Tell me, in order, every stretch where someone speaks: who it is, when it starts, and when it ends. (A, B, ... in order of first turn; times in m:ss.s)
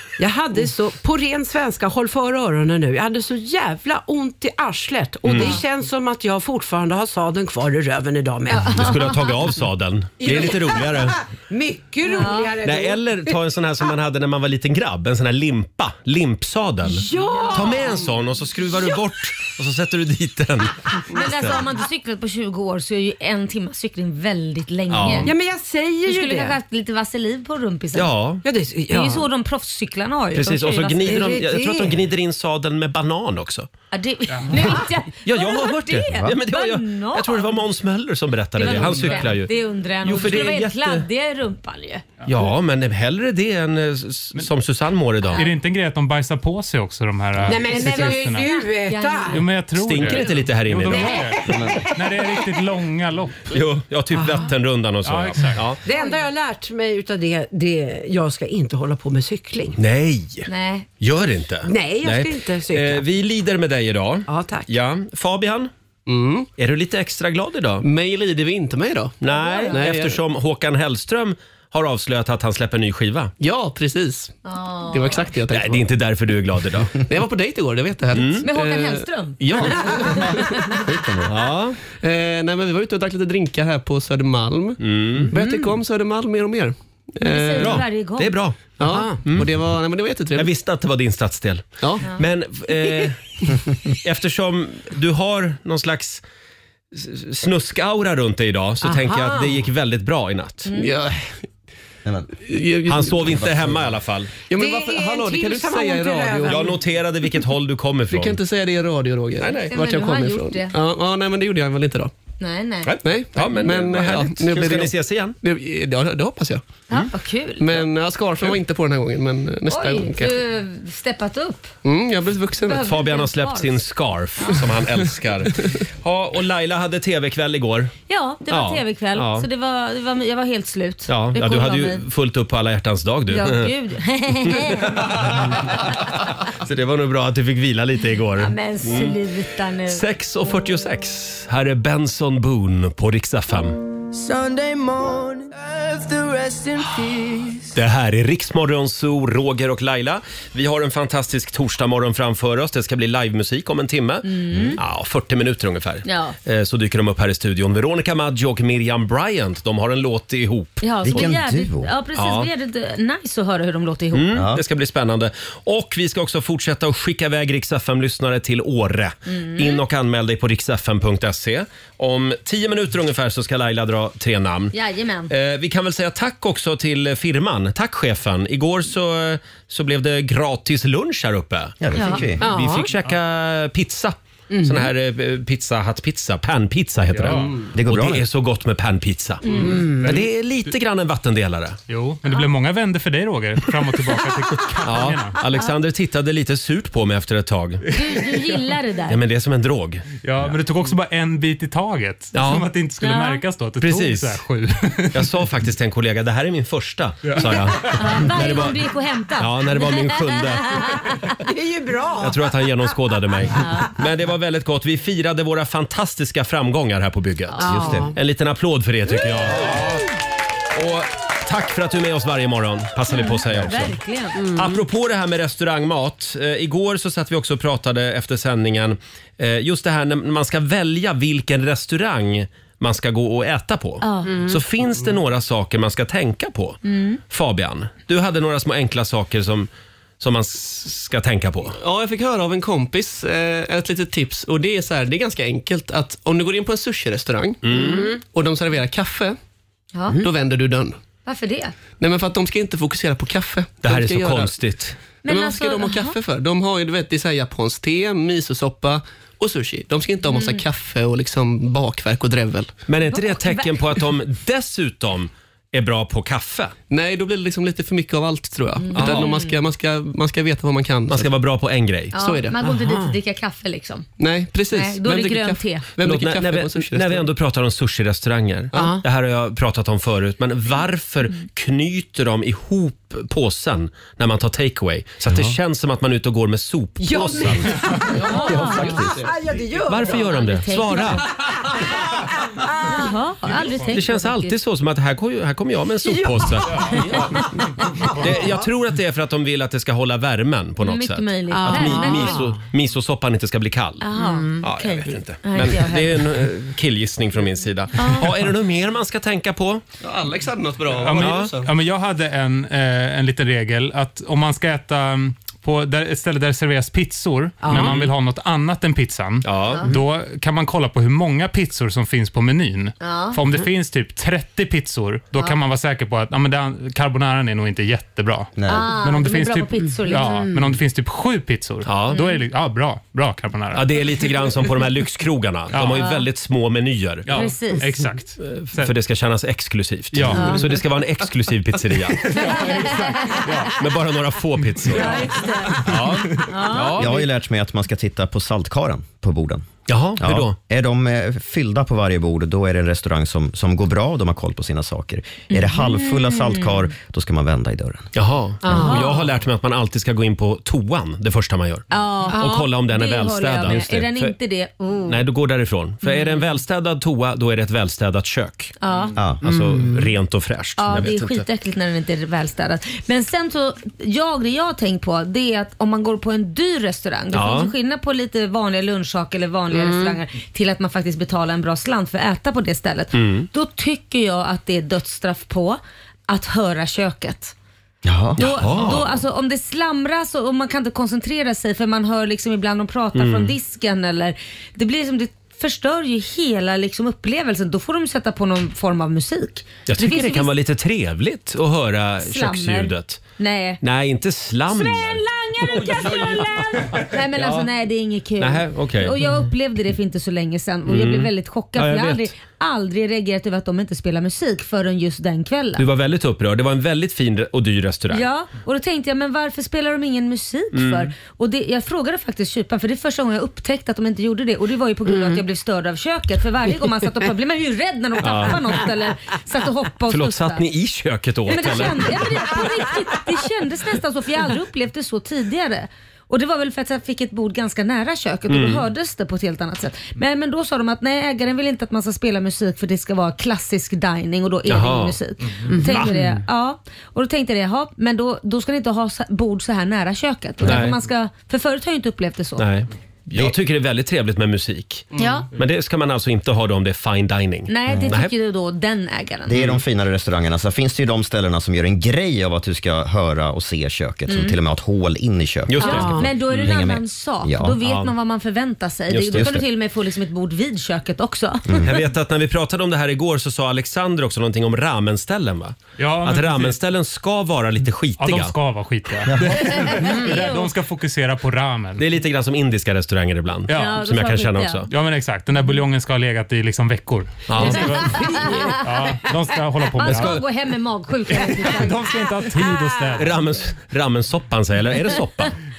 0:00.2-0:09.1 A
0:05.2-0:05.6 B
0:08.5-0:09.1 C
0:08.6-0:11.2 B
0:10.2-0:13.3 A
0:12.1-0:12.5 C
0:12.6-0:21.6 B
0:16.9-0:18.1 A
0:21.1-0:25.3 C
0:24.9-0:25.3 B
0:25.2-0:26.6 A
0:26.1-0:28.1 C
0:27.9-0:28.4 B
0:28.4-0:29.3 A
0:28.9-0:31.4 C
0:30.4-0:33.7 B
0:31.1-0:32.0 A
0:33.9-0:37.5 C
0:35.2-0:41.1 B
0:38.6-0:42.0 C
0:38.7-0:39.2 A
0:42.3-0:45.4 B
0:45.3-0:48.5 D
0:47.4-0:49.5 A
0:47.6-0:49.4 C
0:49.3-0:53.6 D
0:49.8-0:51.6 B
0:50.9-0:51.3 A
0:53.5-0:55.8 B
0:54.1-0:54.5 A
0:55.0-0:55.7 D
0:55.8-0:59.8 A
0:55.9-0:56.2 C
0:59.8-1:00.5 B
1:00.5-1:00.9 C
1:01.0-1:05.7 B
1:01.6-1:03.0 A
1:04.3-1:04.7 A
1:06.1-1:06.5 E
1:06.6-1:07.9 B
1:07.8-1:10.2 E
1:09.2-1:13.3 B
1:09.3-1:09.8 C
1:13.4-1:15.9 E
1:14.4-1:15.3 C
1:15.5-1:17.0 B
1:17.0-1:20.3 E
1:18.1-1:18.4 B
1:18.4-1:20.7 C
1:19.5-1:19.8 B
1:20.8-1:21.3 F
1:21.3-1:21.8 B
1:22.0-1:24.8 E
1:24.8-1:25.3 B
1:25.3-1:27.9 E
1:27.2-1:28.4 C
1:27.6-1:29.5 B
1:28.8-1:30.5 E
1:28.8-1:29.2 A
1:30.4-1:36.2 B
1:36.9-1:40.7 B
1:38.8-1:39.6 A
1:40.7-1:41.4 E
1:42.4-1:43.5 E
1:42.9-1:44.4 B
1:44.5-1:46.7 E
1:44.5-1:46.8 A
1:46.5-1:48.4 B
1:48.1-1:52.1 E
1:49.4-1:49.7 B
1:49.6-1:50.7 C
1:52.4-1:52.9 C
1:52.9-1:56.6 E
1:53.3-1:55.4 B
1:56.9-1:57.8 C
1:57.6-2:00.4 E
1:59.7-2:01.7 C
2:01.8-2:02.9 E
2:02.7-2:03.8 C
2:02.8-2:07.9 B
2:08.1-2:12.0 C
2:08.5-2:09.5 B
2:11.1-2:13.7 B
2:13.3-2:15.2 C
2:14.4-2:19.2 B
2:18.4-2:20.0 C
2:19.9-2:23.8 B
2:27.7-2:41.3 B
2:34.2-2:34.8 C
2:36.0-2:36.4 C
2:40.8-2:44.4 C
2:41.0-2:41.9 F
2:42.2-2:42.5 B
2:44.1-2:54.7 B
2:44.3-2:44.6 F
2:49.3-2:49.8 C
2:54.7-2:55.3 C
2:55.3-3:01.8 B
3:01.8-3:02.4 F
3:01.9-3:02.2 C
3:02.4-3:02.9 A
3:02.4-3:11.8 B
3:04.5-3:04.9 A
3:07.1-3:07.6 D
3:07.7-3:08.2 F
3:09.5-3:10.1 A
3:11.9-3:15.4 D
3:14.8-3:17.8 B
3:17.9-3:19.2 C
3:19.1-3:20.1 B
3:20.2-3:25.3 D
3:22.3-3:22.7 B
3:23.0-3:23.4 C
3:23.8-3:24.4 B
3:25.1-3:28.8 B
3:27.9-3:31.1 C
3:29.4-3:31.0 B
3:31.4-3:32.6 A
3:32.2-3:40.0 B
3:37.6-3:38.1 A
3:37.7-3:38.1 F
3:40.7-3:59.7 B
3:43.1-3:44.4 C
3:54.0-3:54.3 C
3:56.8-3:57.2 C
4:00.2-4:01.8 B
4:01.7-4:09.4 E
4:07.6-4:08.1 B
4:07.8-4:08.2 A
4:09.9-4:10.2 C
4:10.1-4:11.0 E
4:11.3-4:11.7 C
4:12.0-4:14.5 E
4:13.8-4:15.0 B
4:15.2-4:16.2 C
4:15.2-4:22.7 E
4:20.3-4:20.6 C
4:22.9-4:26.8 B
4:23.1-4:23.8 C
4:26.9-4:31.3 E
4:28.8-4:29.6 C
4:28.9-4:29.3 B
4:31.1-4:32.2 B
4:32.1-4:34.1 C
4:32.1-4:32.6 E
4:32.7-4:33.1 A
4:34.2-4:37.3 E
4:34.7-4:35.9 C
4:36.0-4:48.0 B
4:38.7-4:39.0 A
4:47.0-4:51.2 A
4:48.1-4:49.1 C
4:48.5-4:49.2 F
4:48.7-4:49.2 E
4:49.9-4:51.3 B
4:50.0-4:51.2 C
4:51.8-4:53.1 A
4:52.8-4:54.5 C
4:53.9-4:57.1 B
4:56.1-4:56.9 A
4:56.9-4:57.9 C
4:58.0-4:58.6 A
4:58.2-5:04.0 B
5:00.8-5:02.4 C
5:01.5-5:02.5 A
5:04.0-5:06.2 C
5:04.2-5:04.6 A
5:04.6-5:09.8 B
5:08.0-5:08.2 C
5:10.0-5:11.7 E
5:11.0-5:33.9 D
5:11.1-5:11.5 B
5:17.6-5:18.0 A
5:17.7-5:18.1 B
5:19.4-5:19.9 B
5:23.0-5:23.4 C
5:28.6-5:28.9 F
5:28.7-5:30.5 C
5:30.3-5:30.7 A
5:31.9-5:32.2 B
5:32.1-5:32.4 C
5:33.7-5:37.4 B
5:35.7-5:36.0 D
5:35.9-5:36.2 C
5:37.3-5:38.9 D
5:37.3-5:37.9 C
5:38.4-5:42.8 B
5:40.1-5:40.8 D
5:40.3-5:40.6 C
5:42.3-5:43.8 D
5:42.4-5:43.5 C
5:43.8-5:47.2 B
5:44.9-5:45.8 C
5:46.4-5:47.2 C
5:47.0-5:49.7 F
5:49.9-5:50.6 B
5:50.2-5:58.1 F
5:55.5-5:56.9 C
5:58.2-6:04.4 B
5:58.6-5:59.2 A
5:58.7-5:59.2 C
6:01.9-6:05.2 C
6:02.3-6:02.5 A
6:05.1-6:08.8 B
6:06.0-6:06.5 C
6:08.8-6:09.2 C
6:09.2-6:09.4 F
6:09.4-6:11.5 B
6:09.5-6:10.0 A
6:10.8-6:27.5 C
6:17.3-6:17.7 B
6:19.7-6:20.2 A
6:23.1-6:23.5 B
6:28.0-6:28.8 F
6:28.4-6:29.2 B
6:28.4-6:40.5 C
6:33.2-6:33.5 B
6:39.9-6:43.2 B
6:42.2-6:43.8 C
6:43.8-6:46.8 B
6:44.7-6:55.8 C
6:47.4-6:47.6 B
6:48.4-6:49.2 B
6:50.9-6:52.3 B
6:55.8-6:58.3 B
6:58.1-7:10.6 C
7:00.7-7:01.1 B
7:05.1-7:05.4 A
7:08.2-7:08.8 B
7:10.1-7:12.6 B
7:11.5-7:32.7 C
7:18.5-7:18.8 B
7:24.7-7:25.2 B
7:25.7-7:26.2 A
7:25.7-7:26.2 B
7:30.6-7:31.0 B
7:32.6-7:38.3 B
7:37.7-7:39.6 C
7:37.9-7:38.2 F
7:39.5-7:47.8 F
7:39.5-7:39.8 B
7:44.3-7:44.6 C
7:45.7-7:46.8 B
7:45.8-7:51.9 C
7:45.9-7:46.3 A
7:47.8-7:48.1 B
7:49.1-7:49.6 B
7:49.3-7:49.6 F
7:51.7-7:52.0 F
7:51.8-7:58.6 B
7:56.0-7:56.8 D
7:58.2-8:02.0 D
7:59.6-8:00.7 C
8:02.0-8:04.9 B
8:03.7-8:04.0 D
8:03.7-8:04.9 C
8:04.9-8:10.4 D
8:07.5-8:08.2 B
8:07.6-8:08.7 C
8:08.0-8:08.9 A
8:09.9-8:12.1 C
8:11.3-8:13.4 D
8:13.2-8:15.6 B